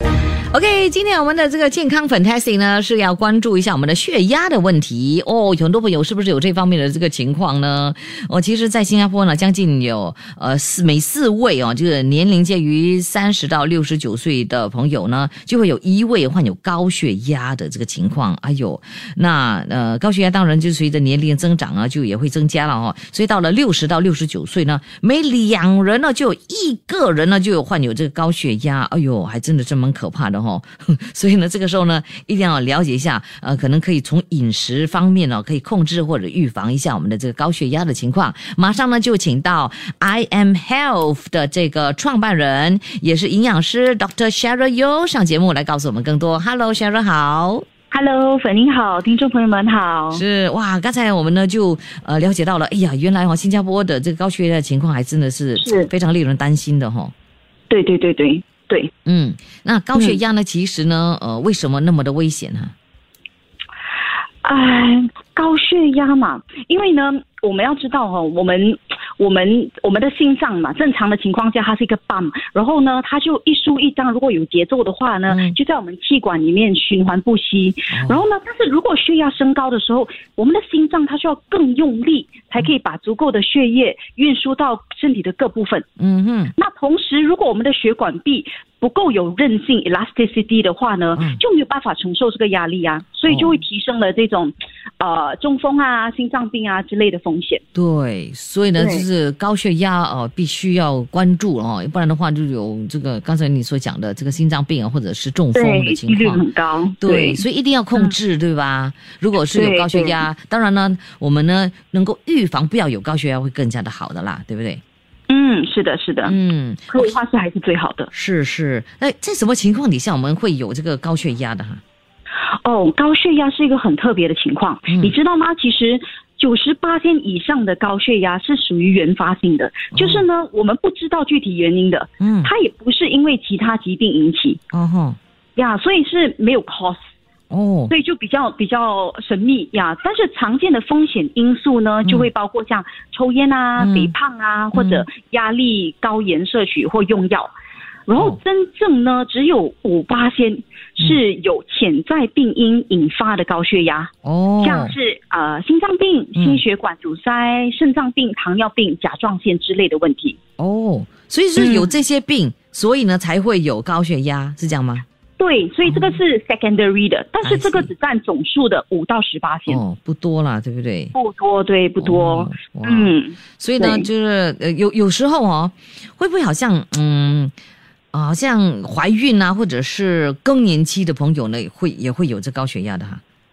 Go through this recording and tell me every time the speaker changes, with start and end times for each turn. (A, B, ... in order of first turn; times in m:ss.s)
0:00.5-0:47.6 A
0:47.9-0:50.2 B
0:50.1-0:57.1 A
0:55.6-0:55.9 B
0:57.7-0:58.9 B
0:59.0-1:02.7 A
1:04.4-1:25.8 B
1:15.3-1:15.6 A
1:17.9-1:18.2 A
1:26.0-1:26.5 A
1:26.6-1:37.6 B
1:33.3-1:33.6 A
1:37.7-1:46.4 A
1:38.8-1:39.0 B
1:45.6-1:47.4 B
1:47.0-1:54.8 A
1:49.5-1:50.2 B
1:55.3-1:56.4 B
1:56.2-1:57.2 A
1:56.9-1:58.1 B
1:58.1-2:01.8 A
2:02.6-2:14.6 B
2:04.9-2:05.1 A
2:09.9-2:10.2 A
2:12.2-2:12.5 A
2:14.7-2:15.2 A
2:15.6-2:17.0 B
2:17.5-2:17.9 A
2:17.9-2:27.5 B
2:23.8-2:24.1 A
2:24.7-2:25.1 A
2:28.1-2:34.1 B
2:34.2-2:34.9 A
2:34.6-2:40.4 B
2:36.4-2:36.6 A
2:40.6-2:45.0 A
2:41.6-2:42.0 B
2:45.4-2:49.8 B
2:45.8-2:46.2 A
2:47.4-2:47.9 A
2:49.7-2:51.1 A
2:51.2-2:54.1 B
2:52.0-2:57.5 A
2:58.1-3:03.2 A